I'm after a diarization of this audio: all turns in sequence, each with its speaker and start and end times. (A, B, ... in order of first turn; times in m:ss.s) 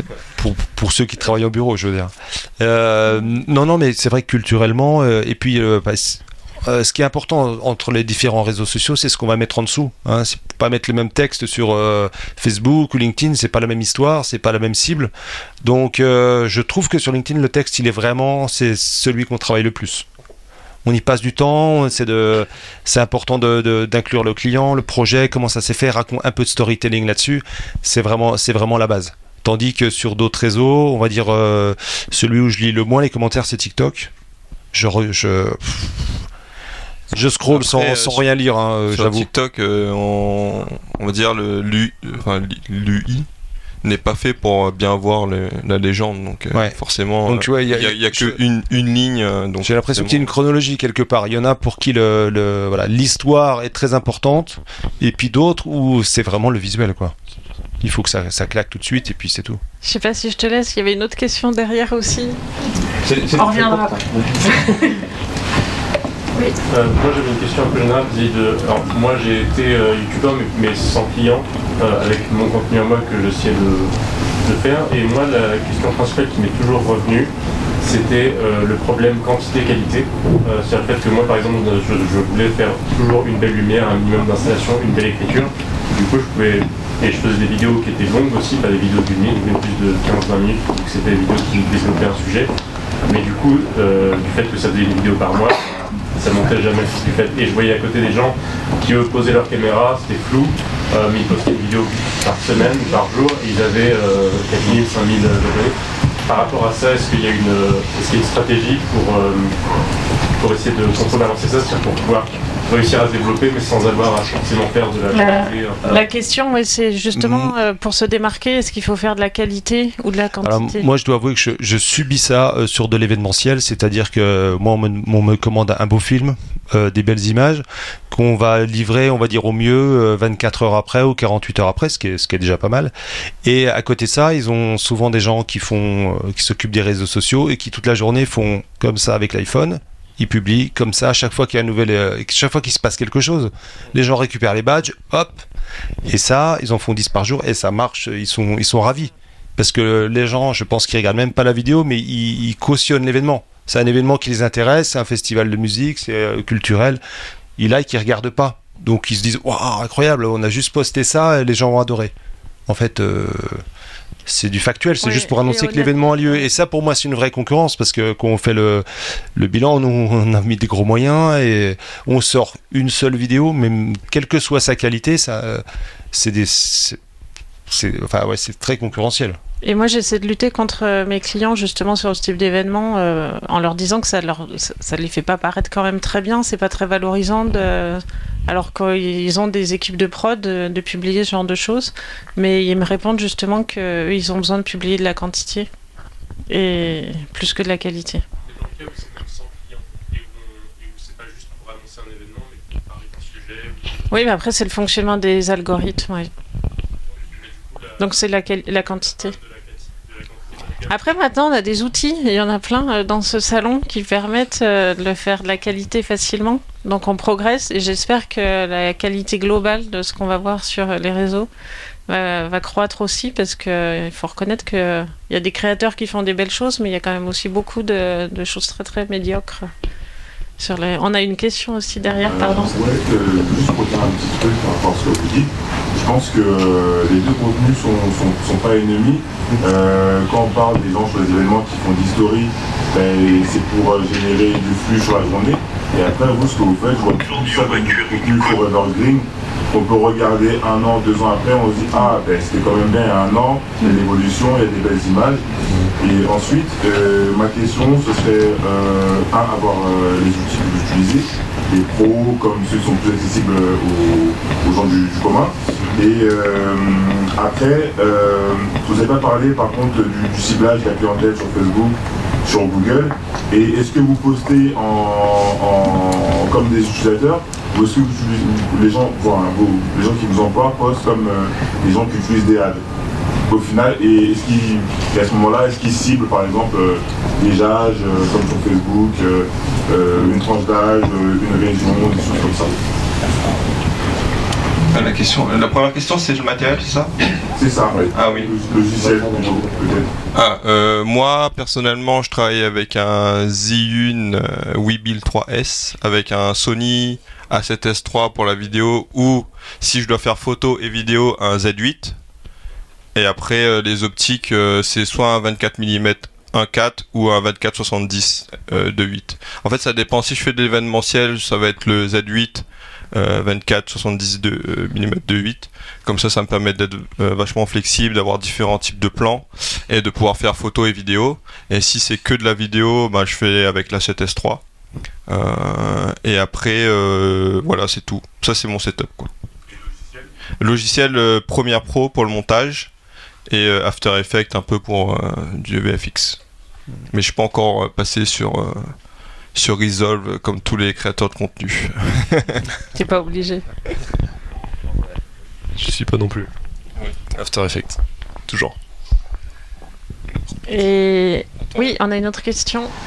0:00.4-0:15.1 A
0:15.6-0:20.0 A
0:20.8-0:34.1 A
0:34.7-0:36.2 A
0:37.1-0:39.3 A
0:37.5-0:38.2 B
0:38.9-0:43.3 B
0:43.8-0:50.3 B
0:46.5-0:48.4 A
0:49.6-0:57.1 A
0:57.8-0:59.6 A
0:59.8-1:02.4 C
1:03.3-1:05.0 C
1:06.7-1:32.5 D
1:33.0-1:49.6 D
1:50.4-1:56.0 D
1:55.1-2:00.8 C
1:57.1-1:57.5 A
2:00.4-2:12.9 A
2:13.4-2:25.4 A
2:26.1-2:37.0 A
2:37.6-2:42.1 A
2:42.7-2:43.6 A
2:44.2-2:57.0 A
2:45.0-2:46.4 C
2:57.7-2:59.4 A
2:59.6-3:15.7 C
3:16.5-3:18.2 C
3:18.5-3:24.0 D
3:24.1-3:26.3 C
3:27.1-3:28.1 D
3:28.0-3:29.4 C
3:29.0-3:31.0 D
3:30.9-3:41.5 C
3:42.1-3:49.7 C
3:50.6-3:52.7 C
3:52.2-4:42.8 E
4:43.4-4:52.8 E
4:54.9-4:57.1 B
4:57.6-5:00.1 E
4:58.1-4:58.5 B
5:00.3-5:12.2 B
5:13.1-5:34.6 B
5:35.3-5:39.3 B
5:40.6-5:42.9 B
5:43.5-5:46.4 B
5:47.1-5:48.9 B
5:49.5-5:52.6 B
5:52.9-5:53.6 C
5:55.8-5:56.5 F
5:57.2-5:58.8 F
6:00.7-6:02.9 C